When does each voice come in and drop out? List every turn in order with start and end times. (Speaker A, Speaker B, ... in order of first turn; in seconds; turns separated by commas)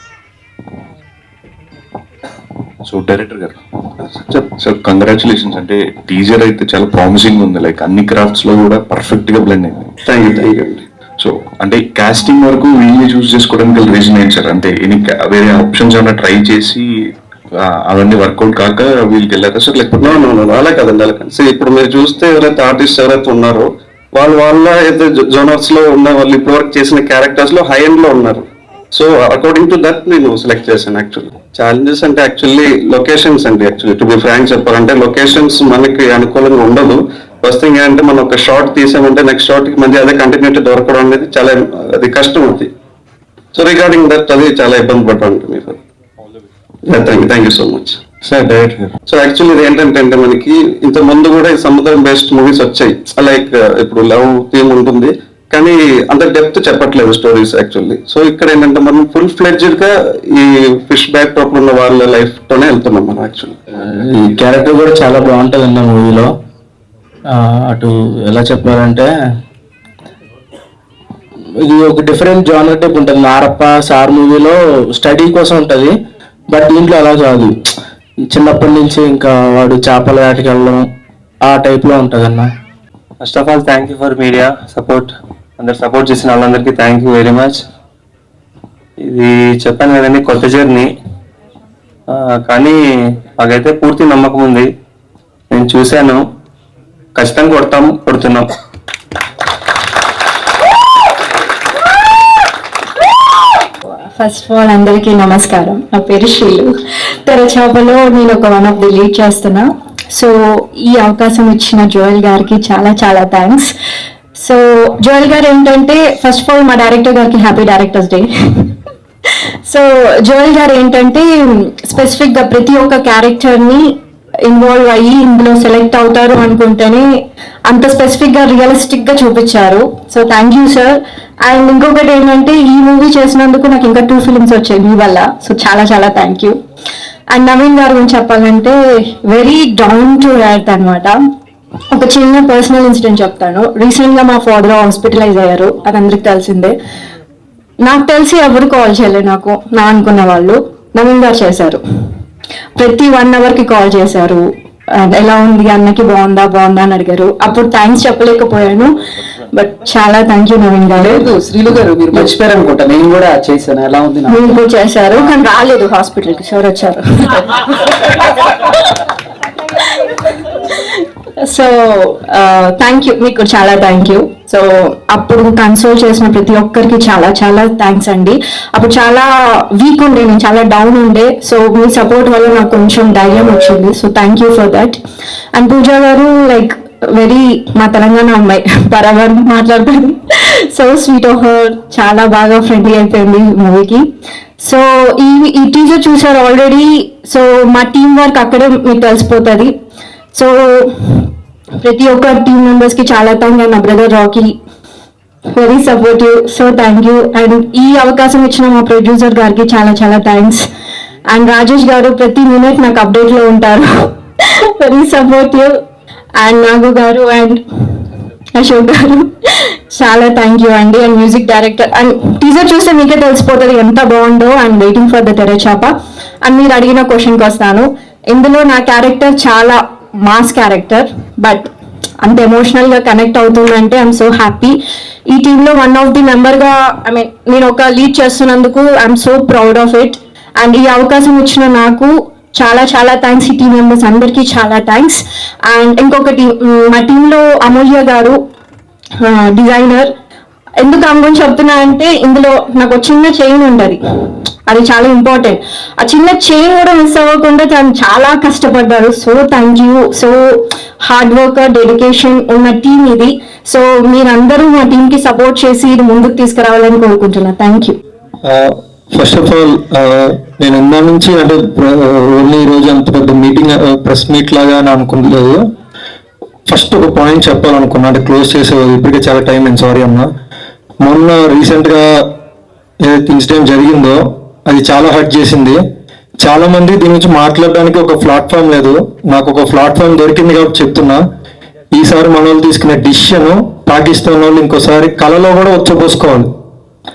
Speaker A: 2.9-3.6, Speaker A: 4.6-9.9, Speaker B: 10.1-10.8, Speaker A: 11.2-16.9, Speaker A: 17.6-20.3, Speaker B: 20.0-42.7, Speaker B: 43.5-45.8, Speaker B: 46.9-48.0, Speaker A: 48.3-48.9, Speaker B: 49.1-63.6, Speaker C: 63.9-66.3, Speaker C: 67.3-69.1, Speaker C: 71.6-76.0, Speaker C: 76.5-77.6, Speaker C: 78.3-80.9, Speaker C: 81.4-82.5, Speaker D: 83.2-87.6, Speaker D: 89.0-90.9, Speaker D: 92.1-92.8, Speaker D: 93.4-94.7, Speaker D: 95.5-96.2, Speaker D: 97.2-98.5, Speaker E: 104.2-106.7, Speaker E: 107.2-113.7, Speaker E: 114.4-118.7, Speaker E: 119.7-127.1, Speaker E: 127.7-136.6, Speaker E: 137.3-141.2, Speaker E: 141.9-146.8, Speaker E: 147.8-151.8, Speaker E: 152.8-159.0, Speaker E: 159.5-161.3, Speaker F: 160.9-164.5, Speaker E: 164.3-167.5, Speaker E: 171.4-185.0, Speaker E: 185.5-194.1, Speaker E: 194.6-199.8, Speaker E: 200.3-201.3, Speaker E: 201.8-204.6, Speaker E: 205.5-210.7, Speaker E: 211.3-215.8, Speaker E: 216.4-217.6, Speaker E: 218.6-231.7, Speaker E: 232.2-248.4, Speaker E: 249.2-250.1, Speaker E: 250.8-254.0, Speaker E: 254.7-268.0, Speaker G: 268.4-275.6, Speaker G: 276.7-280.3, Speaker G: 281.0-282.3, Speaker G: 283.0-285.8, Speaker G: 286.4-291.2, Speaker G: 292.0-296.5